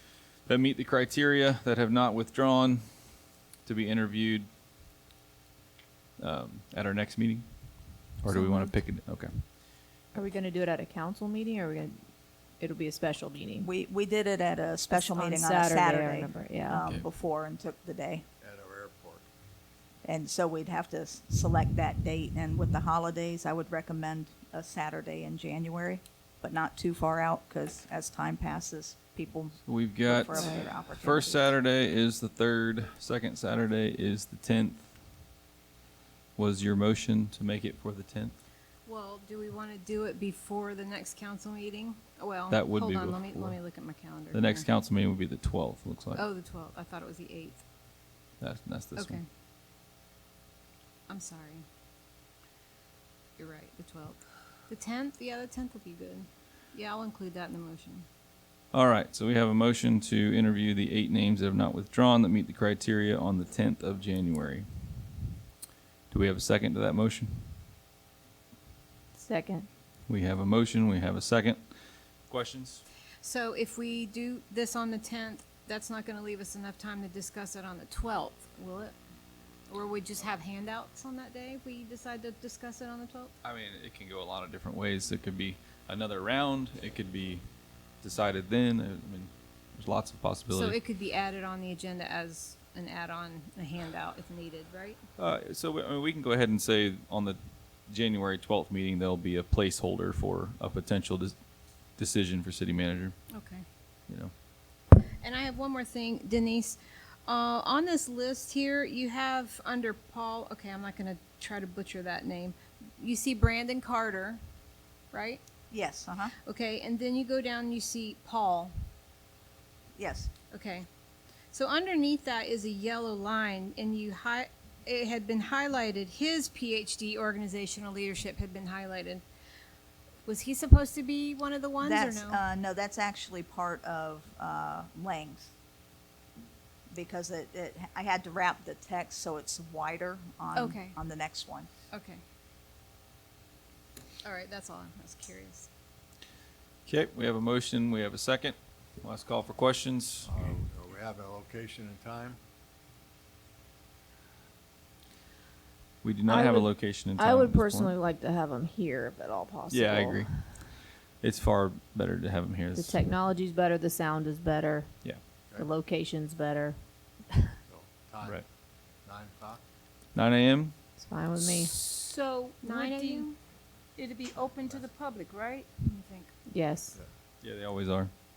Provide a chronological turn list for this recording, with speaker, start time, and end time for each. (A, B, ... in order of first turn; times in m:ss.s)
0:00.4-0:04.5 A
0:06.2-0:09.4 A
0:08.3-0:08.7 B
0:10.1-0:12.0 B
0:12.6-0:13.7 B
0:13.6-0:18.2 C
0:14.9-0:16.9 B
0:18.4-0:19.2 D
0:20.0-0:31.5 C
0:29.7-0:34.9 A
0:30.3-0:30.7 B
0:36.4-0:38.4 A
0:38.8-0:44.6 E
0:42.5-0:43.6 A
0:44.3-0:46.2 A
0:46.1-0:47.6 E
0:48.4-0:49.2 A
0:49.0-0:49.2 E
0:51.1-0:51.6 E
0:53.4-0:58.0 E
0:58.7-1:04.6 A
1:06.1-1:07.5 A
1:09.2-1:09.7 B
1:10.1-1:11.6 A
1:12.3-1:12.8 A
1:13.2-1:19.0 E
1:19.7-1:23.3 E
1:23.4-1:27.4 A
1:28.0-1:30.8 A
1:30.5-1:35.0 E
1:35.2-1:41.3 A
1:42.0-1:43.1 A
1:43.3-1:43.6 E
1:44.9-1:54.4 E
1:55.1-1:55.4 E
1:55.7-1:56.3 C
1:56.4-1:58.8 E
2:00.0-2:00.3 C
2:00.5-2:00.8 E
2:01.5-2:09.2 E
2:10.2-2:12.4 E
2:11.8-2:15.5 C
2:16.9-2:21.7 C
2:20.6-2:21.0 E
2:21.9-2:22.2 E
2:24.2-2:25.7 E
2:26.8-2:30.5 A
2:30.2-2:32.4 D
2:36.0-2:37.9 A
2:36.2-2:40.4 B
2:39.7-2:43.0 A
2:42.7-2:46.8 B
2:47.7-2:48.4 D
2:49.0-2:49.6 D
2:50.1-2:50.7 A
2:51.0-2:51.7 B
2:51.4-2:53.3 F
2:52.6-2:53.4 E
2:54.0-2:55.7 F
2:55.8-2:56.3 E
2:56.5-2:57.0 B
2:57.4-2:58.1 A